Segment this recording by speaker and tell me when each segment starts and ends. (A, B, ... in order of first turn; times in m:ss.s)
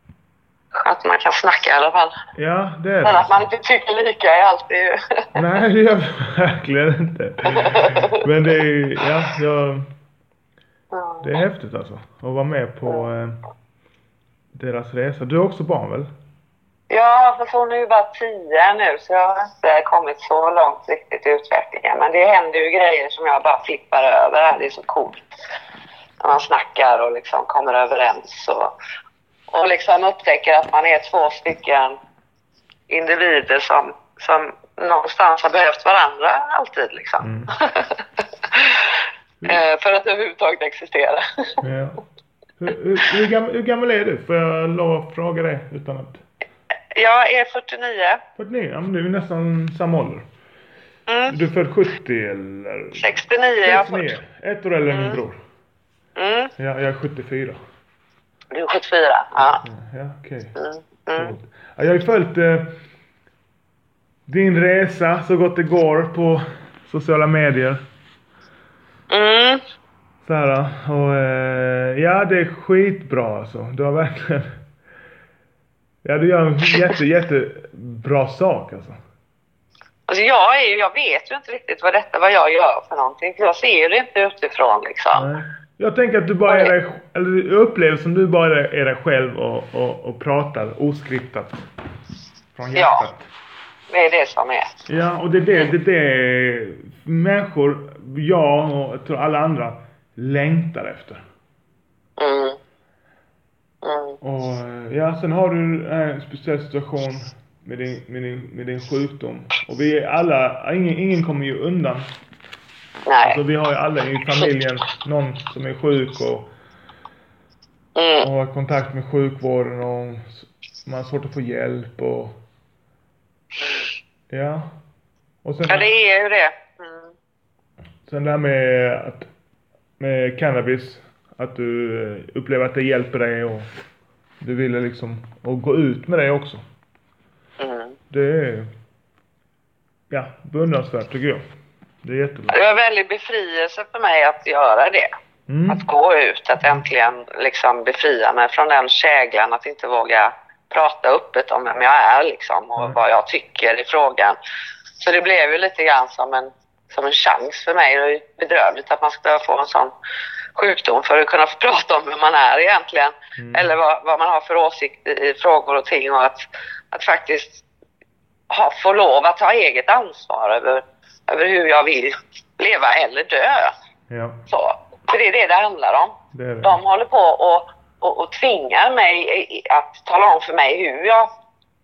0:00.7-0:02.1 A
0:02.3-0:03.4 B
0:03.0-0:05.4 A
0:05.3-0:09.8 B
0:07.4-0:08.2 A
0:10.9-0:11.3 A
0:11.2-0:13.4 B
0:14.5-0:16.1 B
0:16.9-0:25.2 A
0:26.2-0:28.7 A
0:29.5-0:32.0 A
0:32.9-0:41.6 A
0:37.2-0:37.5 B
0:41.6-0:42.0 B
0:42.6-0:46.2 B
0:46.9-0:48.2 A
0:48.4-0:50.2 B
0:51.1-0:51.4 A
0:51.3-0:53.0 B
0:53.0-0:54.1 A
0:53.6-0:55.4 B
0:54.9-0:55.2 A
0:56.2-0:56.5 A
0:56.6-0:57.6 B
0:58.5-0:59.6 A
0:59.6-1:00.5 B
1:00.6-1:01.3 A
1:01.2-1:02.8 B
1:04.3-1:07.8 B
1:09.1-1:09.6 A
1:10.2-1:14.6 B
1:16.0-1:19.0 B
1:20.1-1:25.3 A
1:25.1-1:31.6 B
1:26.4-1:26.7 A
1:32.5-1:33.3 B
1:32.7-1:33.0 A
1:33.9-1:34.7 A
1:34.9-1:41.2 B
1:42.2-1:42.6 A
1:43.8-1:44.2 A
1:44.2-1:52.0 B
1:53.0-1:53.4 A
1:53.2-1:56.5 B
1:58.0-1:58.3 A
1:58.2-2:02.3 B
2:04.3-2:04.7 B
2:05.4-2:05.9 B
2:05.7-2:07.1 A
2:08.0-2:09.3 B
2:10.0-2:13.7 B
2:14.4-2:16.6 B
2:17.6-2:18.0 A
2:18.1-2:18.7 B
2:20.1-2:21.4 B
2:22.0-2:22.6 B
2:22.5-2:25.1 A
2:25.5-2:25.8 B
2:25.7-2:34.4 A
2:35.0-2:39.9 A
2:40.5-2:47.6 A
2:43.4-2:43.7 B
2:48.5-2:53.7 A
2:54.1-2:54.4 B
2:54.5-3:01.3 A
2:56.3-2:56.8 B